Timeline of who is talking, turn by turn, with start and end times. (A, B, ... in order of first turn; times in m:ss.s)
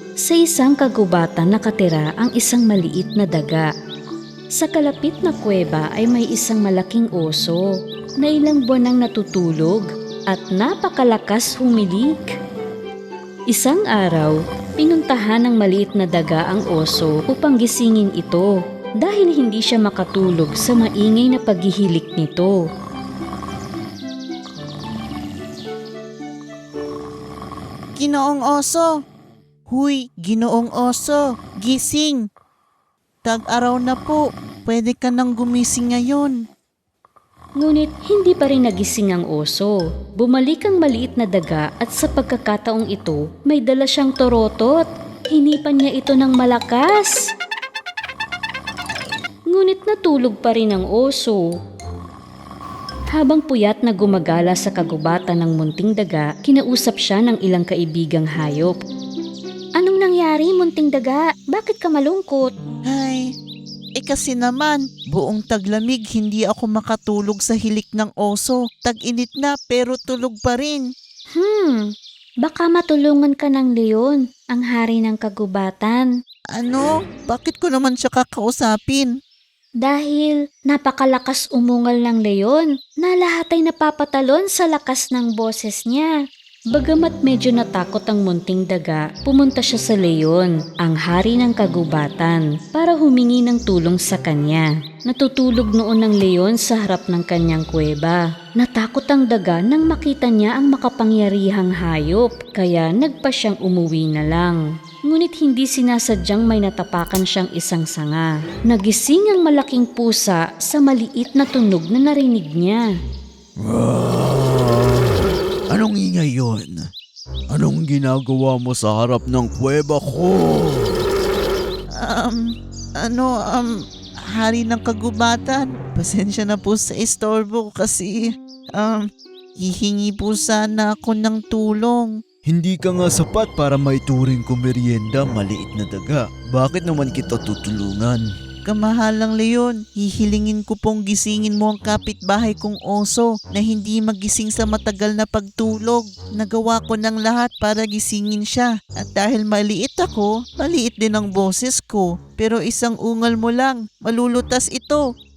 0:00.2-0:03.7 A
0:04.6-0:07.6 A
0:08.2-0:12.2 A
0:13.5-0:22.6 A
0:28.0-0:28.9 B
0:29.7-0:32.2 B
0:33.2-0:36.3 B
0:37.6-0:47.1 A
0:49.5-0:51.4 A
0:53.1-0:58.8 A
0:59.8-1:02.5 A
1:02.9-1:03.2 B
1:04.0-1:10.8 B
1:11.4-1:11.9 A
1:12.4-1:16.1 A
1:16.6-1:19.1 B
1:19.8-1:26.1 A
1:26.7-1:52.9 A
1:53.6-1:56.8 C
1:57.5-2:01.0 C
2:02.0-2:02.4 B
2:03.0-2:03.7 B
2:04.4-2:08.2 B
2:08.8-2:09.0 B
2:09.6-2:12.1 B
2:12.4-2:18.2 C
2:18.7-2:35.0 B